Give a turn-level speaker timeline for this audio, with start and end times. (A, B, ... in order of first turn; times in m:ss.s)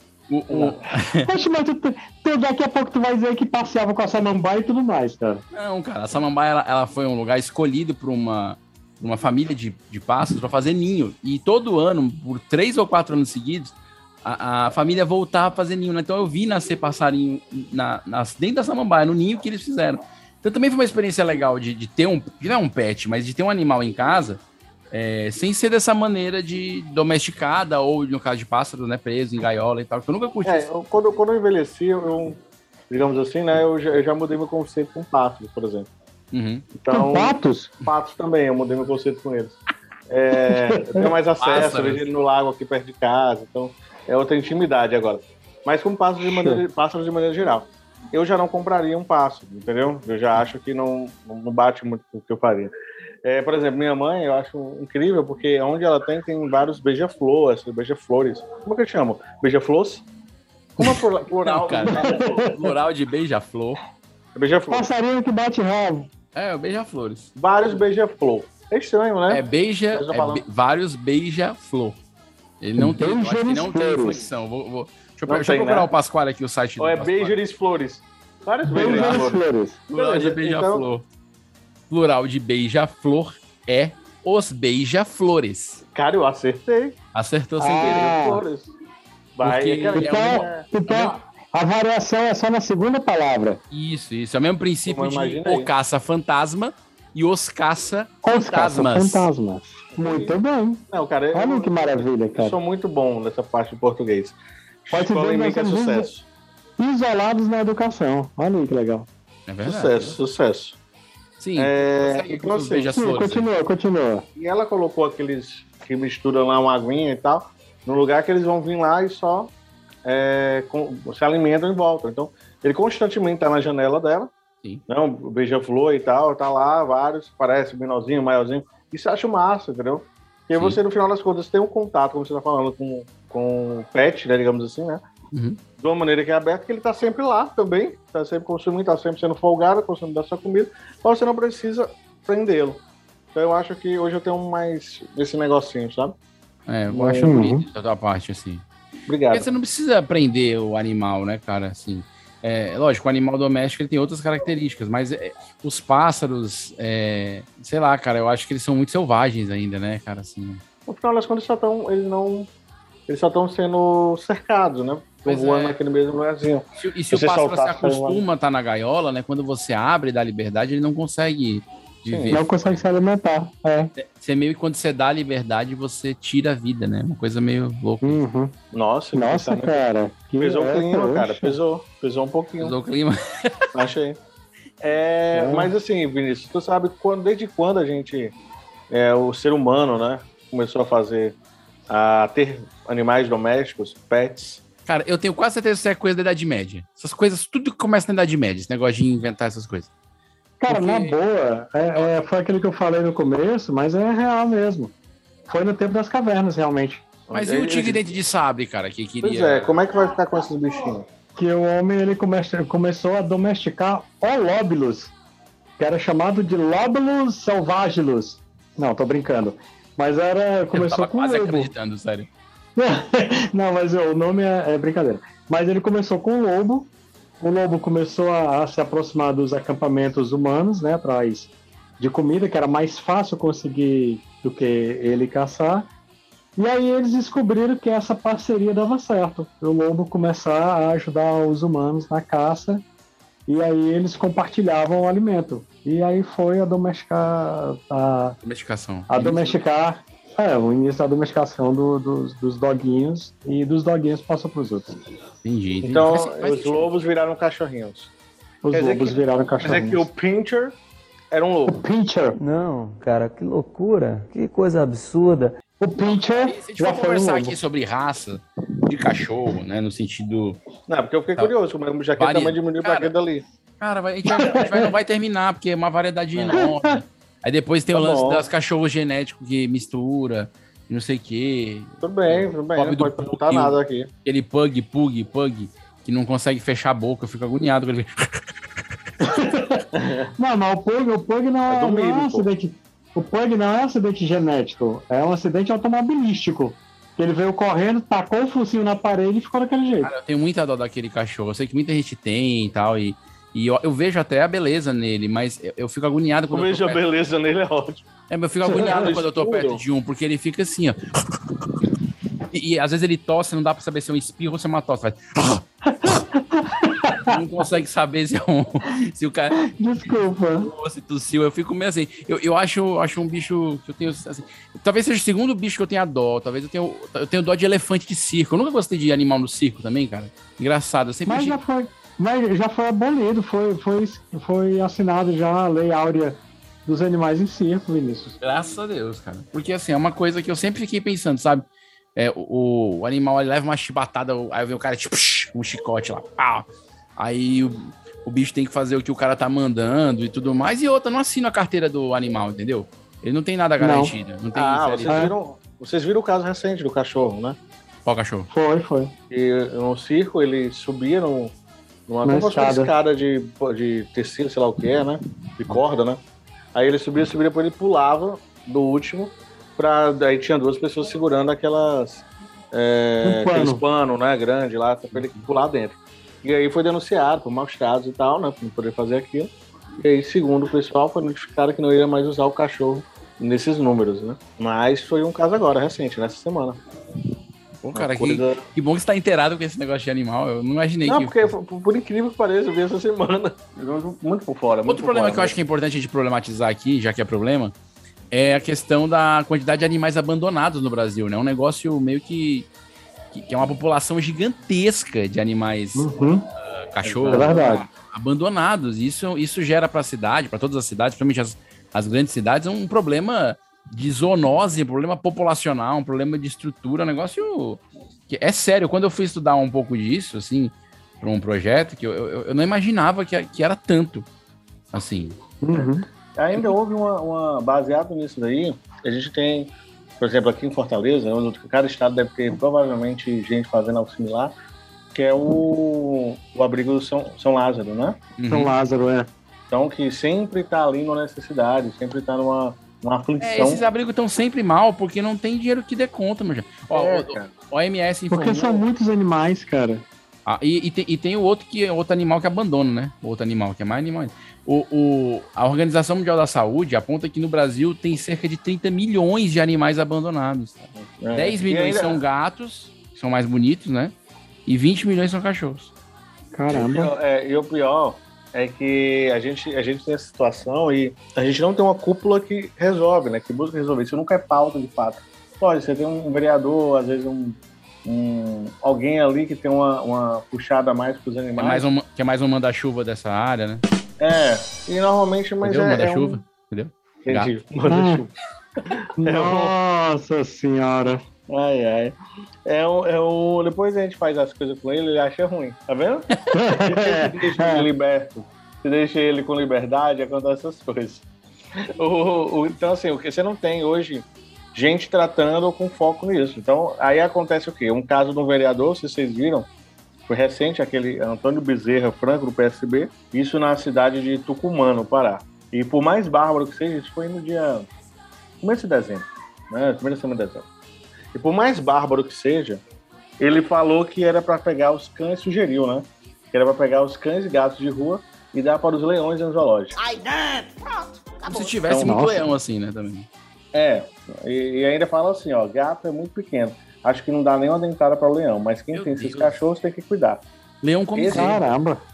0:00.3-0:01.3 A
0:00.5-0:00.8 B
0:01.2-0:05.4 C
0:05.5-0:24.4 A
0:24.9-0:30.7 A
0:30.4-0:35.9 B
0:36.3-0:36.6 A
0:36.8-0:39.6 B
0:36.9-0:37.7 C
0:40.1-0:52.7 B
0:40.5-0:41.0 C
0:41.4-0:42.0 A
0:46.2-0:46.6 C
0:53.2-1:00.0 B
1:00.8-1:02.5 B
1:00.8-1:03.8 A
1:01.8-1:02.6 C
1:04.3-1:04.9 B
1:04.7-1:06.1 C
1:06.3-1:07.3 A
1:07.4-1:10.4 B
1:09.3-1:12.0 A
1:12.6-1:17.4 A
1:12.8-1:14.2 C
1:15.3-1:15.9 B
1:16.8-1:20.9 B
1:18.6-1:19.8 C
1:18.8-1:19.3 A
1:19.9-1:21.0 A
1:21.9-1:25.8 A
1:25.9-1:27.0 B
1:27.1-1:28.1 A
1:27.6-1:28.4 C
1:27.7-1:28.7 B
1:29.4-1:30.7 B
1:29.4-1:31.1 A
1:30.0-1:33.6 C
1:33.7-1:39.3 A
1:34.8-1:35.7 B
1:38.2-1:42.6 C
1:40.0-1:40.4 B
1:40.9-1:46.2 B
1:44.9-1:46.1 C
1:46.8-1:49.1 C
1:49.5-1:50.2 A
1:49.6-1:50.8 B
1:51.4-1:53.5 A
1:51.6-1:52.9 B
1:52.9-1:54.2 C
1:54.4-1:59.5 B
2:00.0-2:04.3 B
2:04.9-2:15.0 B
2:15.3-2:15.6 A
2:15.8-2:22.8 B
2:23.3-2:26.1 B
2:26.7-2:28.6 A
2:26.9-2:27.4 B
2:27.2-2:27.6 C
2:29.1-2:29.5 B
2:29.3-2:40.6 A
2:40.9-2:42.5 B
2:43.1-2:48.2 B
2:45.2-2:45.8 A
2:46.8-2:52.8 A
2:52.0-2:52.4 B
2:52.3-2:53.9 C
2:54.0-2:58.2 A
2:58.0-2:58.5 C
2:58.7-2:59.8 B
2:59.1-3:01.6 C
3:00.4-3:02.8 B
3:02.6-3:03.6 A
3:03.7-3:04.2 B
3:04.8-3:08.3 B
3:05.3-3:05.7 C
3:08.9-3:11.3 B
3:11.9-3:14.6 B
3:14.8-3:19.9 A
3:20.6-3:24.9 C
3:20.7-3:21.1 A
3:25.5-3:27.0 C
3:27.3-3:28.1 B
3:27.3-3:29.7 A
3:29.2-3:31.1 B
3:31.4-3:35.1 C
3:35.8-3:41.7 C
3:40.7-3:42.3 A
3:42.8-3:46.9 C
3:47.4-3:55.9 C
3:56.6-4:02.8 C
4:03.5-4:08.4 C
4:08.4-4:09.6 A
4:09.1-4:15.0 C
4:15.4-4:16.9 A
4:15.8-4:18.1 B
4:18.6-4:20.1 C
4:18.7-4:20.8 B
4:21.3-4:21.8 B
4:21.7-4:22.4 C
4:22.4-4:25.5 D
4:25.8-4:27.6 C
4:26.0-4:30.6 A
4:30.9-4:33.4 B
4:32.2-4:33.1 A
4:33.8-4:48.3 A
4:34.2-4:34.9 C
4:36.4-4:36.6 B
4:36.5-4:37.0 C
4:37.9-4:38.5 B
4:42.0-4:44.1 B
4:49.2-4:49.8 C
4:49.9-4:50.3 B
4:50.4-5:00.1 C
4:51.7-4:52.5 B
5:00.0-5:07.0 A
5:06.5-5:08.0 B
5:08.3-5:11.0 A
5:08.6-5:09.8 B
5:12.5-5:15.6 A
5:16.0-5:17.4 C
5:17.2-5:19.6 A
5:19.6-5:20.7 C
5:20.6-5:31.6 A
5:31.3-5:38.4 C
5:38.4-5:41.6 A
5:42.2-5:55.2 A
5:53.8-5:54.1 C
5:54.5-5:57.6 B
5:55.1-5:55.3 C
5:58.0-5:58.5 A
5:58.5-5:59.1 C
5:59.3-6:01.5 B
6:02.1-6:06.2 B
6:02.2-6:02.9 C
6:06.7-6:26.8 B
6:13.2-6:13.8 C
6:15.1-6:15.4 A
6:27.8-6:31.5 A
6:27.9-6:28.6 B
6:31.0-6:35.5 B
6:34.9-6:37.7 A
6:38.3-6:42.7 A
6:43.3-6:46.1 A
6:45.9-6:46.5 C
6:46.6-7:04.3 A
6:47.0-6:47.8 B
6:47.3-6:47.8 C
7:04.9-7:05.4 A
7:05.6-7:06.0 C
7:05.7-7:14.5 B
7:15.1-7:18.2 B
7:18.4-7:18.7 A
7:18.5-7:19.3 C
7:19.7-7:23.8 B
7:23.4-7:28.8 A
7:26.9-7:27.5 B
7:28.3-7:30.0 C
7:30.4-7:44.1 A
7:41.0-7:42.2 B
7:44.6-7:45.9 A
7:46.5-7:47.1 C
7:46.7-8:01.8 B
8:01.6-8:03.8 A
8:04.2-8:06.4 B
8:05.6-8:07.5 A
8:07.2-8:08.3 B
8:07.9-8:08.2 C
8:08.8-8:09.7 B
8:09.2-8:11.2 C
8:11.5-8:12.1 B
8:12.6-8:21.2 B
8:16.5-8:17.9 C
8:22.0-8:29.7 B
8:30.3-8:37.9 B
8:38.6-8:40.6 B
8:41.3-8:42.8 B
8:43.4-8:50.0 B
8:51.4-8:52.2 B
8:51.5-8:53.3 A
8:51.9-8:52.5 C
8:53.7-9:00.4 B
8:58.9-8:59.6 A
9:00.8-9:01.6 A
9:01.1-9:01.6 B
9:01.3-9:02.0 C